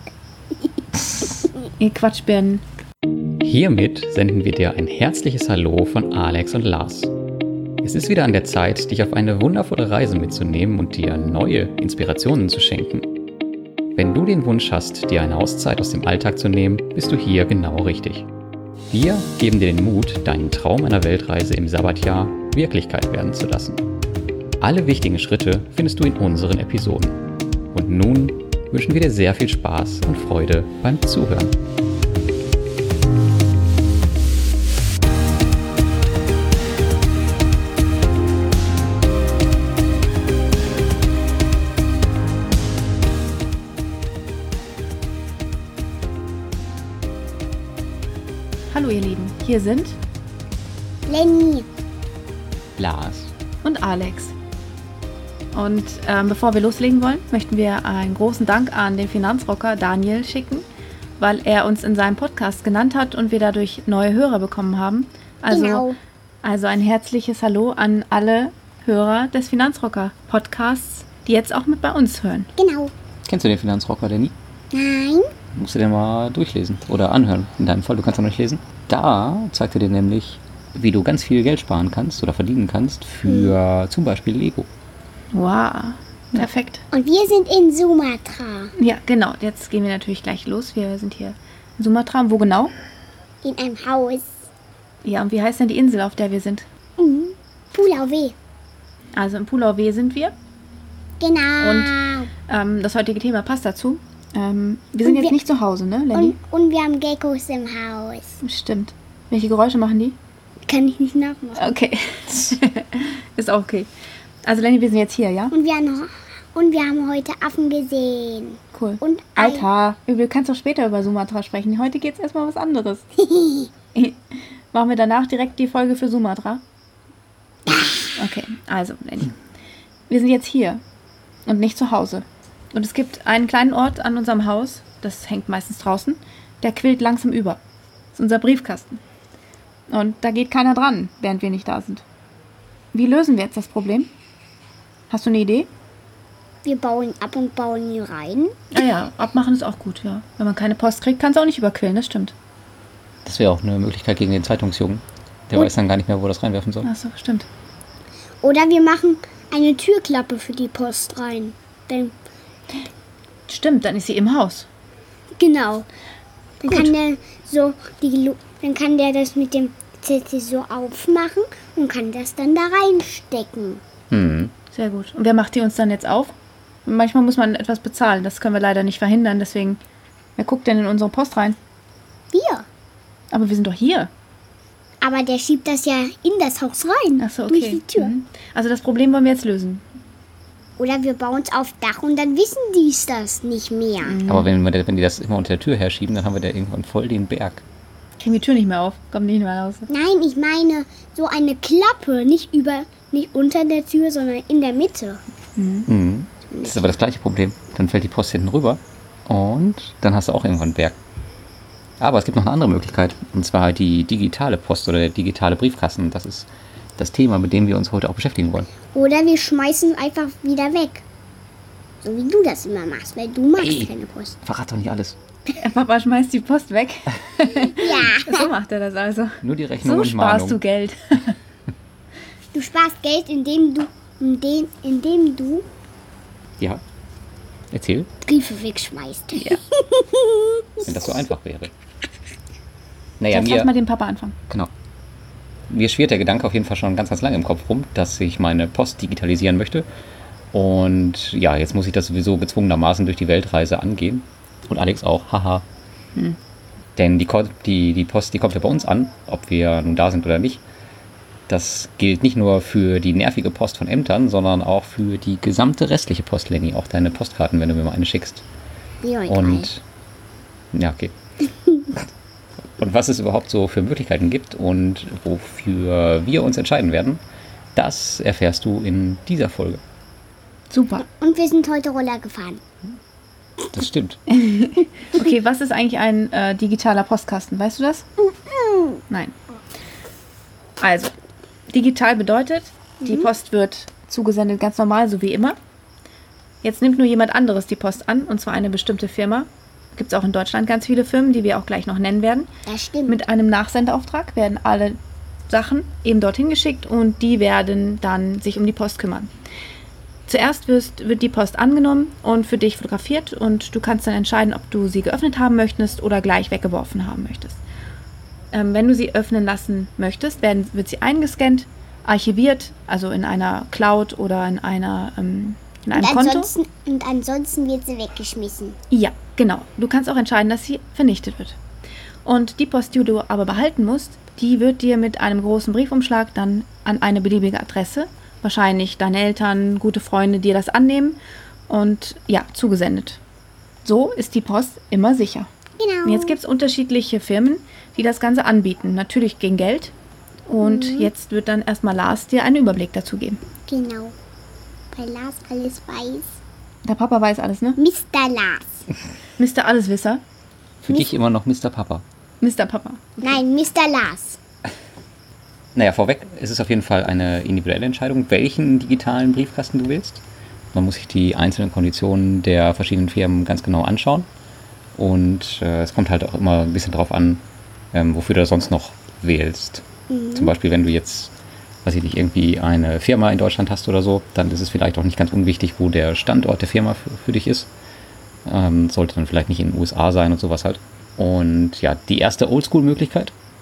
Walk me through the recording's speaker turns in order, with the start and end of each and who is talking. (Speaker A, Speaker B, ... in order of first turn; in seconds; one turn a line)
Speaker A: 1.8-2.6
Speaker B: 3.4-7.1
Speaker B: 7.8-13.1
Speaker B: 14.0-18.3
Speaker B: 18.9-23.8
Speaker B: 24.6-27.2
Speaker B: 27.7-31.5
Speaker A: 48.7-50.0
Speaker C: 51.1-51.7
Speaker B: 52.8-53.3
Speaker A: 53.6-54.3
Speaker A: 55.5-60.6
Speaker A: 61.2-65.9
Speaker C: 65.5-66.0
Speaker A: 66.4-72.5
Speaker C: 72.6-72.9
Speaker B: 73.3-74.3
Speaker C: 74.7-75.3
Speaker B: 75.6-84.7
Speaker C: 83.3-83.6
Speaker A: 85.3-86.8
Speaker C: 86.9-88.7
Speaker A: 88.8-92.7
Speaker C: 93.4-94.3
Speaker A: 95.0-96.7
Speaker C: 97.0-98.3
Speaker A: 99.1-100.3
Speaker C: 101.2-102.3
Speaker A: 101.6-106.4
Speaker C: 105.0-105.4
Speaker C: 106.1-108.4
Speaker A: 108.4-110.2
Speaker C: 110.7-111.6
Speaker A: 111.6-113.9
Speaker A: 114.4-115.5
Speaker C: 115.5-119.7
Speaker A: 118.7-123.0
Speaker C: 123.2-123.7
Speaker A: 123.9-124.2
Speaker A: 124.7-126.6
Speaker A: 128.2-129.3
Speaker A: 130.1-130.8
Speaker A: 131.4-137.6
Speaker A: 138.1-139.0
Speaker A: 139.9-142.0
Speaker A: 142.9-144.1
Speaker A: 145.1-145.7
Speaker C: 146.6-148.5
Speaker A: 148.7-152.3
Speaker B: 153.2-156.9
Speaker A: 156.8-157.5
Speaker C: 158.4-162.1
Speaker A: 163.5-164.7
Speaker C: 165.4-165.9
Speaker C: 166.6-173.8
Speaker B: 174.1-174.5
Speaker A: 174.7-176.3
Speaker A: 176.8-179.8
Speaker A: 180.4-181.6
Speaker C: 182.3-182.7
Speaker A: 183.3-184.1
Speaker C: 185.0-188.1
Speaker A: 187.2-189.8
Speaker C: 190.8-194.2
Speaker A: 194.0-194.5
Speaker B: 194.3-197.6
Speaker A: 198.2-199.9
Speaker C: 199.9-205.2
Speaker A: 205.6-205.9
Speaker B: 205.9-210.9
Speaker C: 206.5-206.9
Speaker B: 212.0-218.7
Speaker C: 218.9-221.0
Speaker C: 222.0-224.4
Speaker B: 223.6-223.9
Speaker B: 224.4-225.2
Speaker A: 225.5-231.3
Speaker C: 227.7-228.5
Speaker B: 229.4-230.6
Speaker C: 232.5-235.6
Speaker B: 237.7-238.1
Speaker C: 238.2-241.2
Speaker A: 239.3-239.6
Speaker B: 240.8-241.7
Speaker B: 243.2-243.7
Speaker A: 243.3-244.3
Speaker B: 245.7-249.9
Speaker B: 250.5-255.6
Speaker B: 256.9-260.6
Speaker B: 261.5-268.4
Speaker C: 269.0-269.7
Speaker B: 269.2-269.8
Speaker B: 270.7-271.1
Speaker B: 272.8-277.2
Speaker B: 277.8-279.8
Speaker A: 280.7-281.1
Speaker C: 281.2-282.6
Speaker B: 283.7-284.2
Speaker A: 284.3-288.1
Speaker A: 290.8-291.1
Speaker A: 291.7-295.6
Speaker A: 296.6-302.5
Speaker C: 302.6-303.2
Speaker A: 303.1-305.0
Speaker A: 305.5-309.3
Speaker A: 310.3-317.6
Speaker A: 318.5-326.5
Speaker C: 325.9-328.8
Speaker A: 328.9-331.6
Speaker A: 332.2-341.2
Speaker A: 341.7-343.2
Speaker A: 343.8-345.5
Speaker C: 345.8-346.4
Speaker A: 346.0-349.9
Speaker A: 350.5-353.4
Speaker C: 350.6-351.1
Speaker C: 353.7-354.1
Speaker C: 354.9-356.3
Speaker A: 356.8-357.8
Speaker C: 357.8-358.6
Speaker A: 359.4-360.2
Speaker B: 360.8-362.1
Speaker A: 362.4-363.4
Speaker C: 363.2-364.4
Speaker B: 365.8-370.2
Speaker B: 370.7-374.3
Speaker B: 374.9-381.3
Speaker C: 380.1-380.5
Speaker B: 381.8-387.7
Speaker B: 388.4-393.3